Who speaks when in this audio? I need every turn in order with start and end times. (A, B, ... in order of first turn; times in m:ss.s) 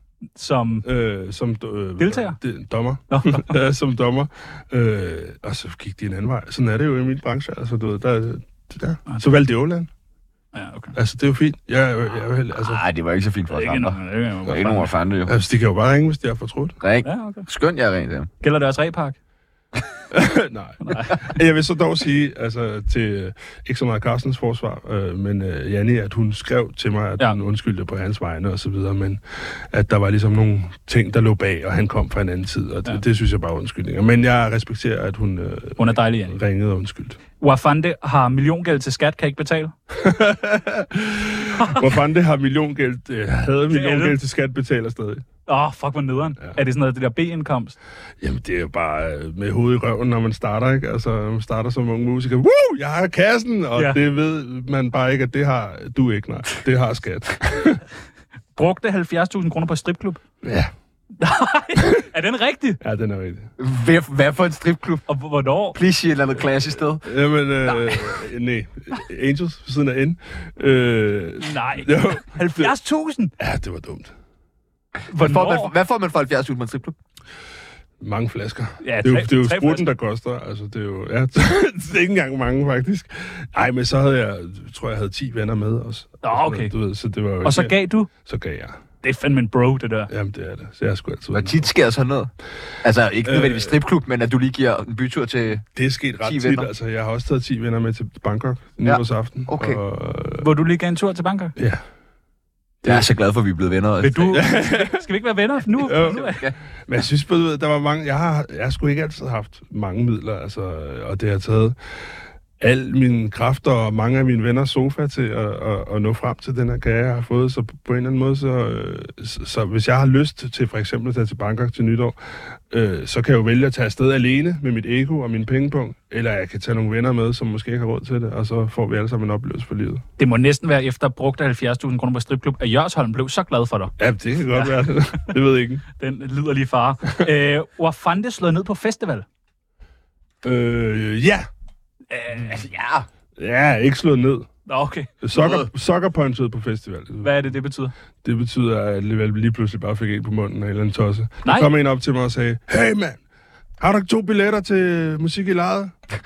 0:00.4-0:00.8 A
0:00.8-0:09.9 B
0:02.0-0:02.4 A
0:03.1-0:03.5 A
0:10.5-0:10.9 A
0:10.9-0:12.8 B
0:12.6-0:15.3 C
0:13.5-0:14.9 A
0:15.2-0:16.8 B
0:16.8-0:18.3 C
0:17.0-0:17.5 A
0:18.4-0:19.2 A
0:20.1-0:37.2 B
0:20.8-0:21.4 A
0:35.8-0:36.4 A
0:37.4-0:39.7 A
0:39.9-0:45.2 B
0:43.7-0:44.2 A
0:45.5-0:47.8 A
0:48.2-0:57.8 B
0:58.6-1:00.2 A
1:00.4-1:00.7 B
1:01.2-1:02.8 A
1:02.8-1:03.5 B
1:03.6-1:05.0 C
1:05.1-1:05.8 A
1:05.7-1:07.1 C
1:07.0-1:12.7 B
1:07.6-1:08.0 C
1:11.4-1:13.3 A
1:13.4-1:14.1 B
1:15.0-1:17.0 C
1:15.1-1:15.7 A
1:18.0-1:28.8 B
1:18.8-1:19.9 A
1:26.2-1:26.7 A
1:27.4-1:28.1 A
1:29.0-1:30.1 A
1:30.1-1:31.7 B
1:31.3-1:32.3 C
1:32.8-1:35.6 C
1:33.2-1:33.8 B
1:35.7-1:40.5 B
1:36.2-1:36.7 C
1:38.8-1:39.8 C
1:40.4-1:41.5 A
1:41.6-1:41.8 B
1:42.8-1:43.1 B
1:42.8-1:44.4 C
1:44.0-1:46.4 A
1:44.3-1:45.0 B
1:45.8-1:51.8 B
1:46.0-1:46.6 C
1:52.6-2:02.2 B
2:02.7-2:10.0 B
2:10.2-2:13.9 A
2:14.0-2:15.8 B
2:14.5-2:14.8 A
2:16.0-2:19.2 A
2:20.4-2:21.5 B
2:22.1-2:22.6 A
2:22.3-2:23.0 C
2:23.4-2:24.5 B
2:24.7-2:25.1 A
2:25.2-2:27.3 B
2:25.3-2:25.7 C
2:27.2-2:27.9 A
2:28.2-2:33.2 B
2:33.8-2:35.9 B